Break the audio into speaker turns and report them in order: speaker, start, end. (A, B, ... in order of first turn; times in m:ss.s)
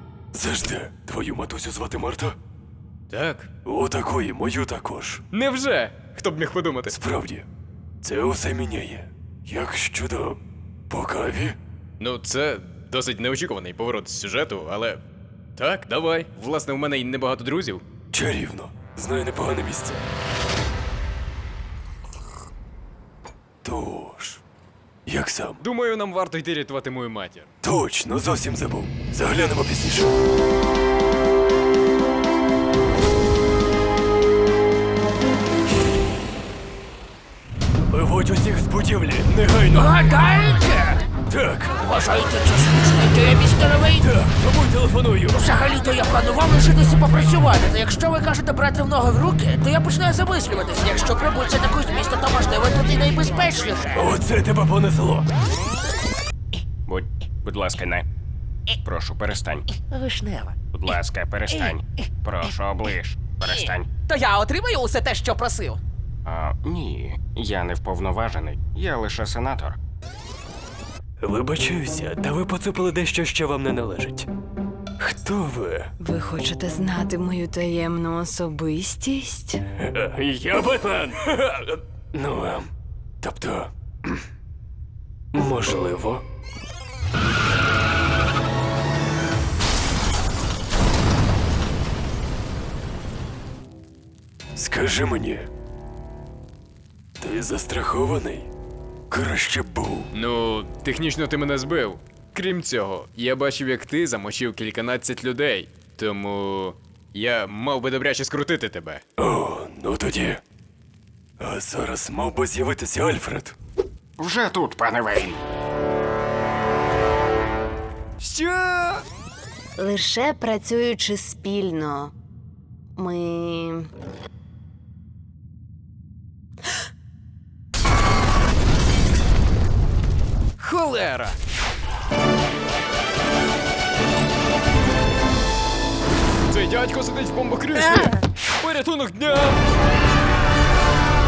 0:00.3-0:02.4 A
0:03.1-0:03.5 B
0:03.6-0:05.2 A
0:05.3-0:07.0 B
0:06.9-0:07.5 A
0:08.0-0:11.6 A
0:12.0-0:15.0 B
0:15.6-0:17.8 B
0:18.1-0:20.0 A
0:23.6-0:24.4 A
0:25.1-0:25.6 A
0:25.6-0:27.5 B
0:27.6-0:30.1 A
0:37.9-0:40.0 A
0:39.7-0:41.1 C
0:41.3-0:41.8 A
0:41.8-0:44.0 C
0:44.0-0:45.5 A
0:45.3-0:54.1 C
0:53.9-0:55.3 A
0:56.9-0:58.1 D
0:58.8-0:59.7 D
0:59.7-1:00.9 C
1:00.7-1:03.9 D
1:03.5-1:05.8 C
1:06.2-1:09.8 D
1:11.2-1:14.3 A
1:15.0-1:15.9 A
1:16.0-1:19.6 E
1:19.8-1:24.2 A
1:25.3-1:26.2 A
1:34.6-1:35.5 A
1:37.2-1:38.5 A
1:39.1-1:40.1 A
1:40.1-1:49.0 B
1:49.2-1:50.4 A
1:51.4-1:53.6 A
1:54.2-1:55.4 D
1:58.2-1:59.0 B
1:59.8-2:02.1 E
2:03.0-2:03.9 E
2:10.6-2:11.4 B
2:16.5-2:19.6 B